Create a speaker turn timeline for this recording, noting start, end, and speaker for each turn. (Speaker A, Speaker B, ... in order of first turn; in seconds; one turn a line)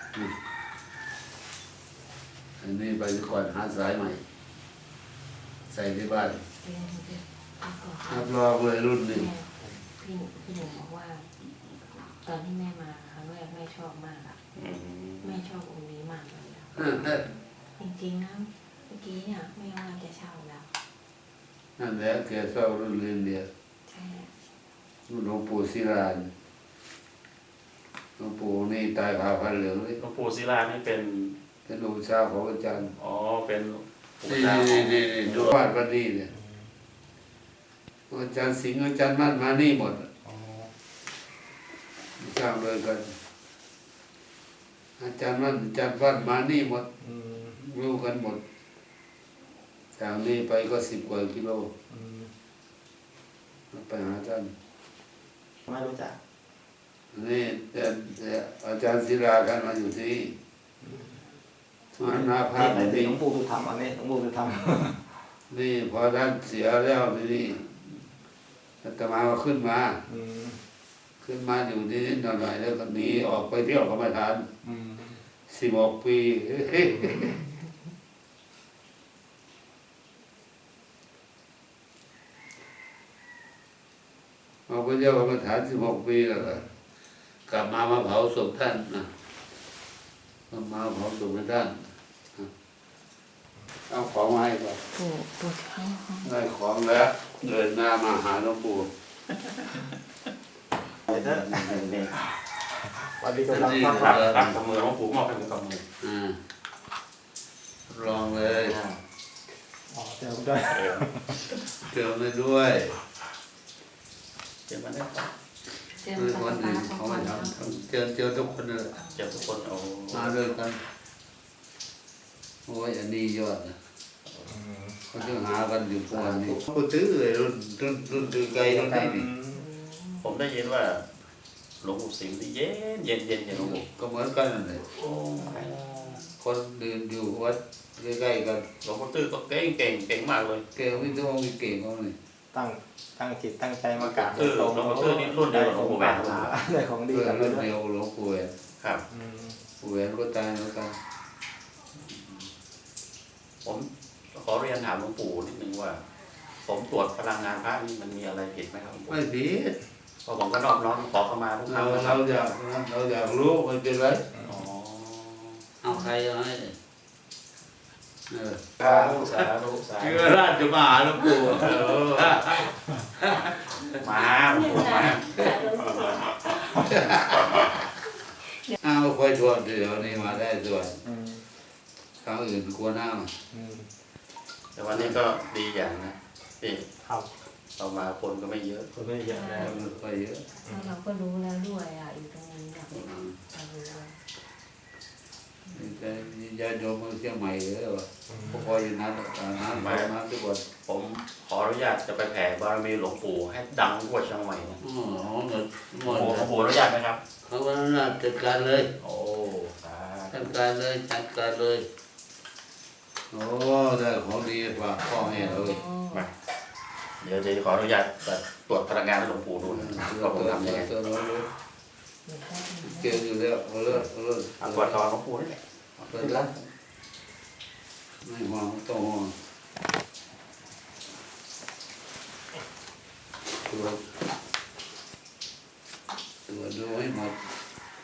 Speaker A: 2.6-4.2
Speaker A: 5.7-6.4
Speaker B: 6.5-8.3
Speaker A: 8.1-9.3
Speaker B: 9.1-11.3
Speaker B: 12.1-14.4
Speaker C: 14.6-15.4
Speaker B: 15.2-17.2
Speaker A: 16.8-17.2
Speaker B: 17.8-20.7
Speaker A: 21.8-23.5
Speaker B: 23.9-24.3
Speaker A: 25.1-26.3
Speaker A: 28.2-30.0
Speaker C: 30.0-31.4
Speaker A: 31.7-32.9
Speaker C: 33.0-35.5
Speaker A: 34.3-36.3
Speaker D: 36.3-36.6
Speaker A: 38.1-40.1
Speaker D: 40.2-40.7
Speaker A: 42.2-43.1
Speaker A: 45.0-46.9
Speaker D: 47.0-47.6
Speaker A: 47.5-48.4
Speaker A: 50.0-51.7
Speaker D: 51.9-52.3
Speaker A: 53.7-54.5
Speaker D: 55.7-56.2
Speaker A: 57.1-60.3
Speaker D: 60.8-61.2
Speaker A: 62.0-63.2
Speaker D: 62.0-65.1
Speaker A: 65.5-67.8
Speaker A: 68.8-70.0
Speaker D: 70.1-70.6
Speaker A: 71.2-74.5
Speaker D: 74.6-75.2
Speaker A: 75.5-77.4
Speaker A: 84.7-86.6
Speaker A: 87.5-89.1
Speaker A: 90.5-92.5
Speaker A: 93.9-94.8
Speaker B: 94.9-96.3
Speaker A: 96.2-98.9
Speaker D: 101.1-101.8
Speaker C: 101.1-102.2
Speaker D: 103.0-104.2
Speaker A: 103.5-104.6
Speaker C: 103.9-105.8
Speaker A: 106.0-106.4
Speaker A: 107.9-108.8
Speaker C: 108.0-109.0
Speaker D: 109.9-111.4
Speaker C: 110.7-111.1
Speaker A: 111.9-113.0
Speaker C: 114.7-115.3
Speaker B: 115.9-117.7
Speaker A: 116.2-118.9
Speaker B: 118.9-119.6
Speaker C: 119.2-120.4
Speaker A: 120.1-120.8
Speaker A: 122.7-123.8
Speaker D: 124.5-125.2
Speaker A: 125.1-129.3
Speaker D: 126.1-126.6
Speaker D: 128.5-129.6
Speaker B: 129.5-130.4
Speaker C: 130.2-131.1
Speaker C: 131.8-133.8
Speaker A: 133.5-134.8
Speaker C: 135.0-136.2
Speaker B: 135.4-136.3
Speaker A: 136.4-138.7
Speaker C: 138.8-140.6
Speaker A: 140.8-142.2
Speaker D: 142.5-147.7
Speaker C: 144.0-146.6
Speaker A: 147.1-148.5
Speaker D: 149.1-149.6
Speaker A: 149.8-150.9
Speaker C: 152.0-152.5
Speaker C: 153.6-156.0
Speaker C: 156.7-159.2
Speaker A: 159.1-159.8
Speaker C: 160.3-162.4
Speaker A: 161.7-164.2
Speaker C: 164.4-165.6
Speaker A: 165.8-166.8
Speaker A: 168.3-174.0
Speaker C: 168.8-170.4
Speaker C: 171.5-172.3
Speaker C: 173.8-175.4
Speaker B: 174.8-176.2
Speaker A: 176.6-177.6
Speaker A: 178.8-181.0
Speaker D: 180.0-180.4
Speaker D: 181.0-181.4
Speaker A: 182.2-183.3
Speaker D: 183.5-183.9
Speaker C: 184.8-186.9
Speaker D: 187.0-187.3
Speaker C: 187.8-188.9
Speaker D: 188.9-189.8
Speaker B: 189.3-189.8
Speaker A: 189.6-190.4
Speaker B: 190.7-194.2
Speaker D: 190.7-190.9
Speaker A: 193.0-193.3
Speaker A: 195.7-200.6
Speaker D: 198.3-198.6
Speaker C: 199.7-200.1
Speaker C: 200.9-204.8
Speaker A: 204.8-206.5
Speaker C: 206.0-207.2
Speaker A: 207.4-208.9
Speaker C: 209.0-210.6
Speaker A: 210.3-211.9
Speaker A: 213.3-215.8
Speaker B: 215.0-216.3
Speaker C: 217.2-220.9
Speaker A: 219.6-221.5
Speaker B: 222.2-223.3
Speaker A: 222.8-225.0
Speaker C: 224.6-226.7
Speaker A: 226.1-226.5
Speaker A: 228.2-229.3
Speaker A: 233.7-234.0
Speaker A: 236.5-237.4